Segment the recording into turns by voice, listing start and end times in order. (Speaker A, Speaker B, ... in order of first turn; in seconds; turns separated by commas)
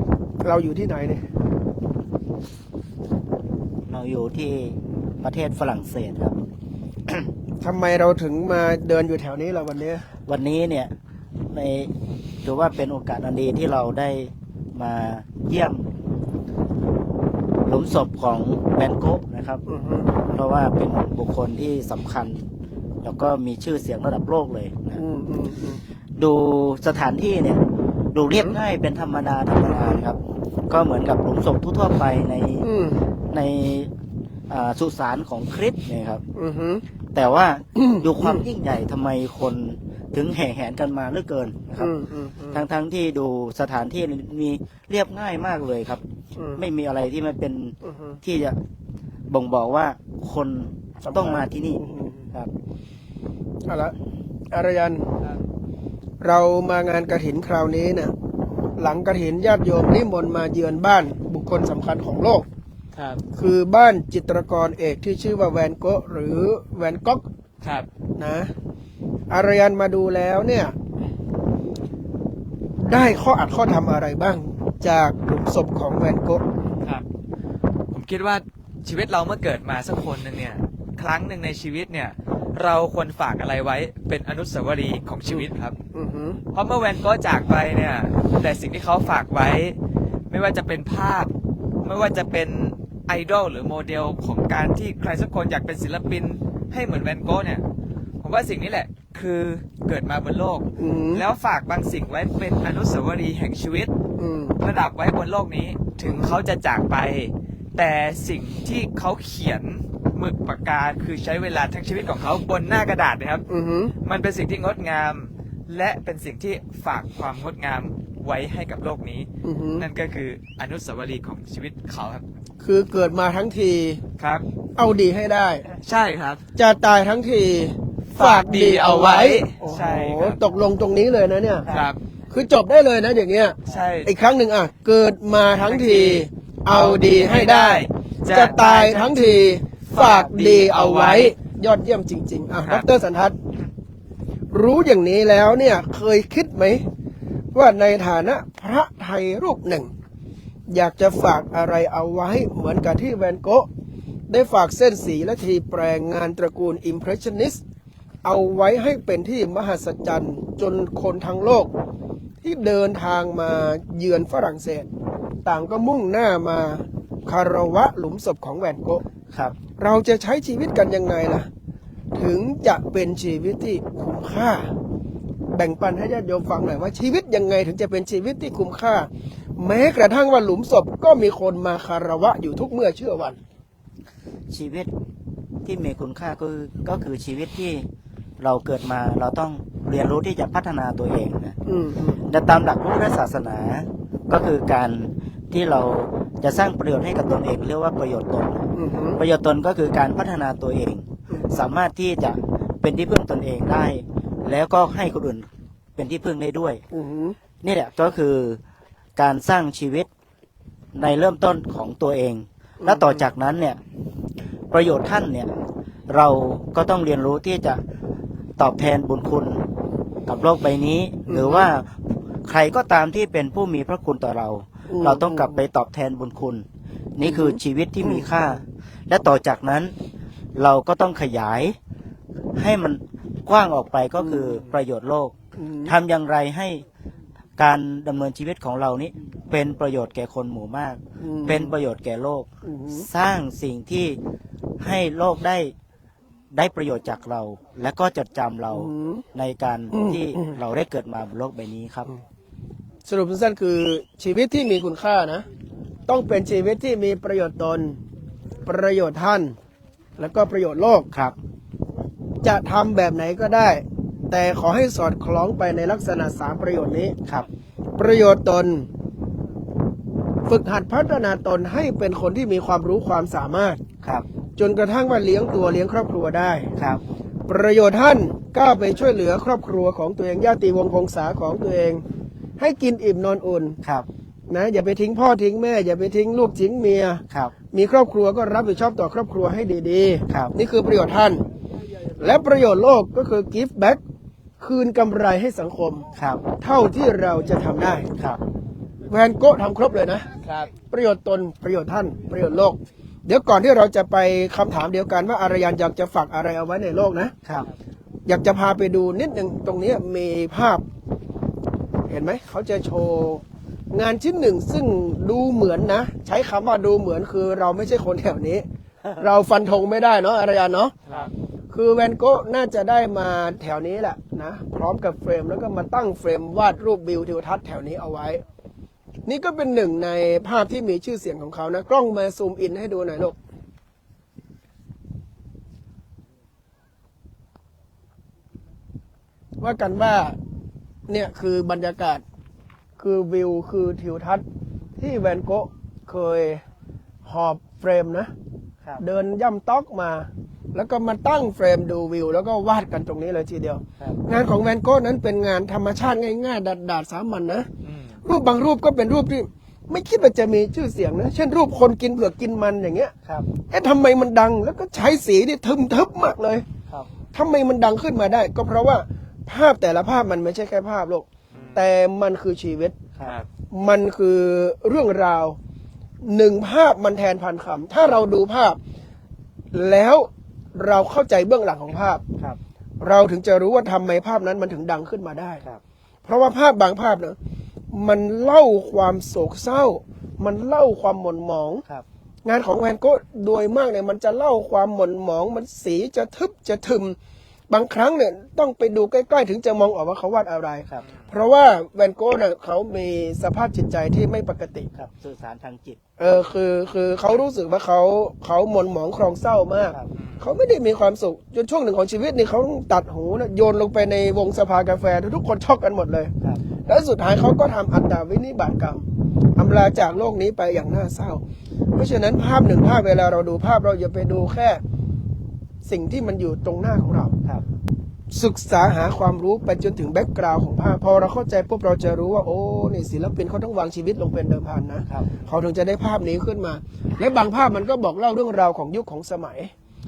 Speaker A: 0.4-1.2, Speaker B: 3.9-6.4, Speaker A: 7.6-10.0, Speaker B: 10.3-10.9, Speaker B: 11.5-11.9, Speaker B: 12.4-15.8, Speaker B: 17.6-19.6, Speaker A: 19.6-20.2, Speaker B: 20.3-22.4, Speaker B: 23.0-25.0, Speaker A: 24.9-25.8, Speaker B: 26.2-27.6, Speaker B: 28.1-30.2, Speaker B: 30.7-32.7, Speaker A: 32.6-33.0, Speaker B: 33.3-33.9, Speaker B: 34.5-36.2, Speaker A: 36.3-36.8, Speaker B: 37.1-41.9, Speaker A: 37.8-38.4, Speaker A: 41.8-42.6, Speaker B: 42.5-46.0, Speaker A: 46.4-46.6, Speaker B: 46.5-48.6, Speaker A: 47.8-48.2, Speaker B: 49.3-51.8, Speaker A: 51.0-52.3, Speaker A: 53.6-53.9, Speaker A: 54.5-55.1, Speaker A: 56.2-58.1, Speaker A: 58.8-62.5, Speaker C: 62.9-63.2, Speaker A: 63.3-67.2, Speaker C: 67.6-67.9, Speaker A: 68.2-68.5, Speaker A: 69.3-70.7, Speaker A: 72.8-76.4, Speaker C: 77.9-85.8, Speaker A: 85.3-86.4, Speaker C: 86.5-89.8, Speaker C: 90.3-91.3, Speaker C: 91.8-97.6, Speaker C: 98.2-103.9, Speaker A: 100.8-101.2, Speaker A: 104.2-104.6, Speaker C: 104.6-113.4, Speaker A: 106.0-106.4, Speaker A: 113.5-113.9, Speaker C: 114.0-122.2, Speaker A: 119.4-119.9, Speaker A: 122.6-124.0, Speaker C: 124.2-124.4, Speaker A: 124.8-125.7, Speaker C: 125.8-126.4, Speaker A: 126.5-131.7, Speaker C: 128.1-130.4, Speaker C: 131.7-132.0, Speaker A: 132.3-143.3, Speaker C: 133.7-134.1, Speaker C: 135.5-141.3, Speaker A: 144.5-146.8, Speaker A: 147.5-149.9, Speaker A: 150.7-153.7, Speaker A: 154.3-157.6, Speaker A: 158.2-161.7, Speaker A: 162.4-164.9, Speaker A: 165.4-169.0, Speaker A: 169.8-171.5, Speaker A: 172.1-174.7, Speaker A: 175.5-183.4, Speaker B: 184.5-184.9, Speaker B: 185.6-187.8, Speaker B: 188.4-191.6, Speaker A: 191.6-192.2, Speaker B: 192.2-198.7, Speaker A: 198.7-199.2, Speaker B: 199.2-206.8, Speaker A: 201.3-201.6, Speaker A: 206.9-207.4, Speaker B: 207.6-208.6, Speaker B: 209.2-210.1, Speaker B: 210.9-213.8, Speaker A: 212.8-213.3, Speaker B: 214.7-215.5, Speaker B: 216.1-217.8, Speaker B: 218.6-219.6, Speaker B: 220.2-226.6, Speaker A: 221.3-221.7, Speaker A: 224.9-225.6, Speaker B: 227.2-229.9, Speaker A: 227.2-228.4, Speaker B: 230.5-231.8, Speaker B: 232.5-235.3, Speaker A: 234.2-234.8, Speaker A: 235.6-235.9, Speaker B: 235.8-236.8, Speaker B: 237.6-244.2, Speaker A: 241.2-241.7, Speaker A: 242.6-243.1, Speaker B: 244.8-245.7, Speaker B: 246.5-252.1, Speaker A: 248.7-249.2, Speaker A: 249.9-250.5, Speaker A: 253.1-255.4, Speaker A: 256.1-258.0, Speaker A: 258.6-259.5, Speaker A: 260.2-261.1, Speaker A: 262.4-267.2, Speaker A: 268.0-268.9, Speaker A: 270.5-273.8, Speaker A: 274.6-276.7, Speaker B: 276.8-277.0, Speaker A: 277.5-282.0, Speaker A: 282.6-283.8, Speaker A: 284.5-291.4, Speaker A: 292.2-294.0, Speaker A: 294.6-296.1, Speaker B: 296.1-296.4, Speaker A: 296.6-298.1, Speaker A: 299.1-300.3, Speaker A: 300.8-307.3, Speaker A: 308.2-310.8, Speaker A: 312.1-318.6, Speaker A: 319.2-320.9, Speaker C: 321.1-321.3, Speaker A: 321.7-328.4, Speaker A: 329.2-333.4, Speaker A: 339.6-340.4, Speaker A: 341.1-342.2, Speaker A: 343.0-344.4, Speaker A: 345.0-346.6, Speaker A: 347.2-348.3, Speaker A: 349.0-357.7, Speaker C: 357.8-358.2, Speaker A: 358.2-363.1, Speaker A: 363.7-366.6, Speaker A: 367.3-372.9, Speaker C: 371.5-371.9, Speaker A: 373.7-375.6, Speaker A: 376.2-378.8, Speaker A: 379.7-382.2, Speaker A: 383.0-385.6, Speaker A: 386.2-387.4, Speaker A: 387.9-391.8, Speaker A: 392.4-397.1, Speaker A: 397.7-404.9, Speaker C: 401.0-401.3, Speaker B: 404.9-406.0, Speaker A: 406.2-416.3, Speaker C: 410.1-410.5, Speaker A: 416.9-421.4, Speaker A: 421.9-424.8, Speaker A: 425.8-427.3, Speaker A: 428.3-439.7